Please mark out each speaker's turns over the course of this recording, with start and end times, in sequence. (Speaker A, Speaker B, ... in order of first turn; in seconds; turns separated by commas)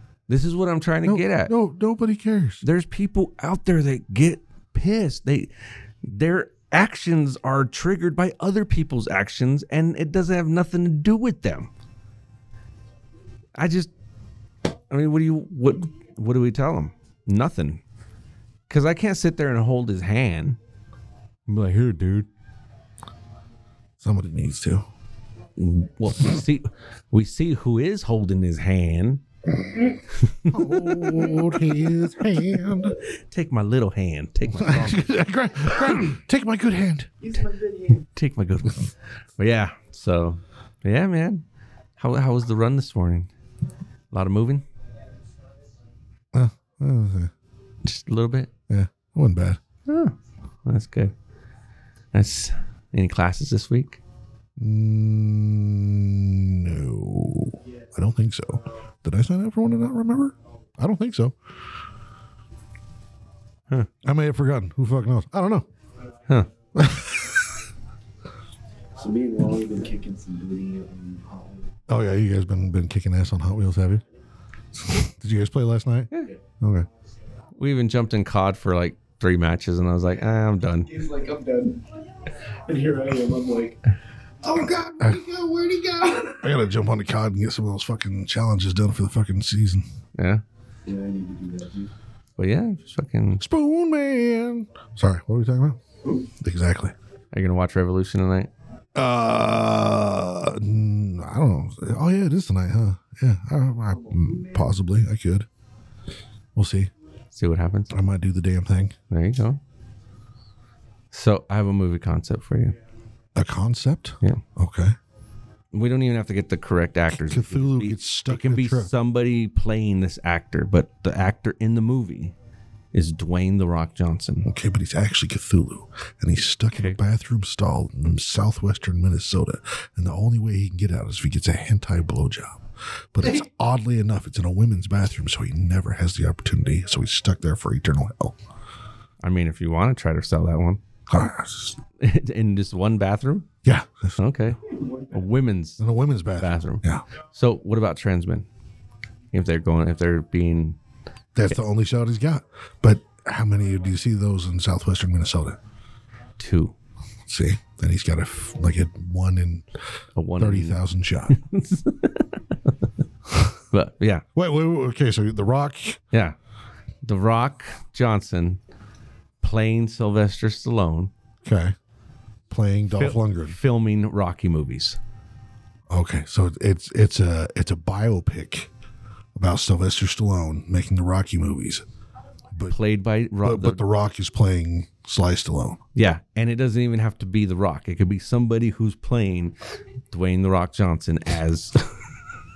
Speaker A: 0.3-1.5, Speaker B: 1.0-2.6, Speaker A: 2.6-5.5, Speaker A: 6.0-11.7, Speaker A: 13.6-13.9, Speaker A: 14.9-17.8, Speaker A: 18.7-20.6, Speaker A: 21.5-22.3, Speaker B: 24.0-24.9, Speaker A: 25.6-29.2, Speaker A: 30.2-31.5, Speaker B: 30.5-33.0, Speaker A: 33.3-35.1, Speaker B: 34.5-37.1, Speaker C: 37.3-38.0, Speaker A: 38.0-41.4, Speaker A: 42.0-43.3, Speaker A: 44.1-44.6, Speaker B: 46.3-47.3, Speaker A: 47.8-48.5, Speaker B: 48.7-49.6, Speaker A: 49.9-50.1, Speaker A: 50.6-51.1, Speaker A: 52.1-54.0, Speaker B: 54.6-61.4, Speaker B: 64.0-65.7, Speaker B: 66.8-67.4, Speaker C: 69.0-71.7, Speaker B: 71.9-74.0, Speaker B: 74.9-76.9, Speaker A: 77.6-80.9, Speaker C: 80.9-81.8, Speaker C: 82.7-83.8, Speaker C: 84.4-86.4, Speaker B: 84.8-85.2, Speaker B: 86.4-89.9, Speaker A: 90.2-90.4, Speaker C: 90.8-91.9, Speaker A: 92.4-93.4, Speaker B: 93.4-95.8, Speaker B: 96.3-96.9, Speaker A: 97.3-98.5, Speaker B: 99.0-105.5, Speaker B: 106.5-106.9, Speaker A: 107.3-107.9, Speaker B: 107.9-109.0, Speaker A: 109.1-109.6, Speaker A: 111.1-112.8, Speaker B: 113.3-115.0, Speaker A: 115.7-122.3, Speaker B: 117.1-118.9, Speaker A: 122.9-124.5, Speaker B: 124.5-138.4, Speaker A: 139.2-140.8, Speaker B: 141.1-141.8, Speaker A: 142.0-143.5, Speaker B: 143.6-144.2, Speaker A: 144.2-144.6, Speaker C: 144.8-145.2, Speaker A: 145.1-145.8, Speaker B: 145.8-147.0, Speaker A: 146.4-148.5, Speaker A: 149.3-150.8, Speaker B: 151.3-155.6, Speaker A: 156.4-156.8, Speaker B: 157.3-159.7, Speaker A: 160.2-162.7, Speaker B: 160.4-161.4, Speaker A: 163.7-164.2, Speaker B: 164.3-166.0, Speaker A: 167.0-168.6, Speaker A: 169.4-171.1, Speaker B: 171.4-171.8, Speaker B: 172.5-173.6, Speaker A: 172.9-175.0, Speaker B: 175.9-178.7, Speaker B: 179.4-181.8, Speaker A: 182.7-183.8, Speaker B: 183.4-185.8, Speaker A: 185.9-189.6, Speaker A: 190.1-191.9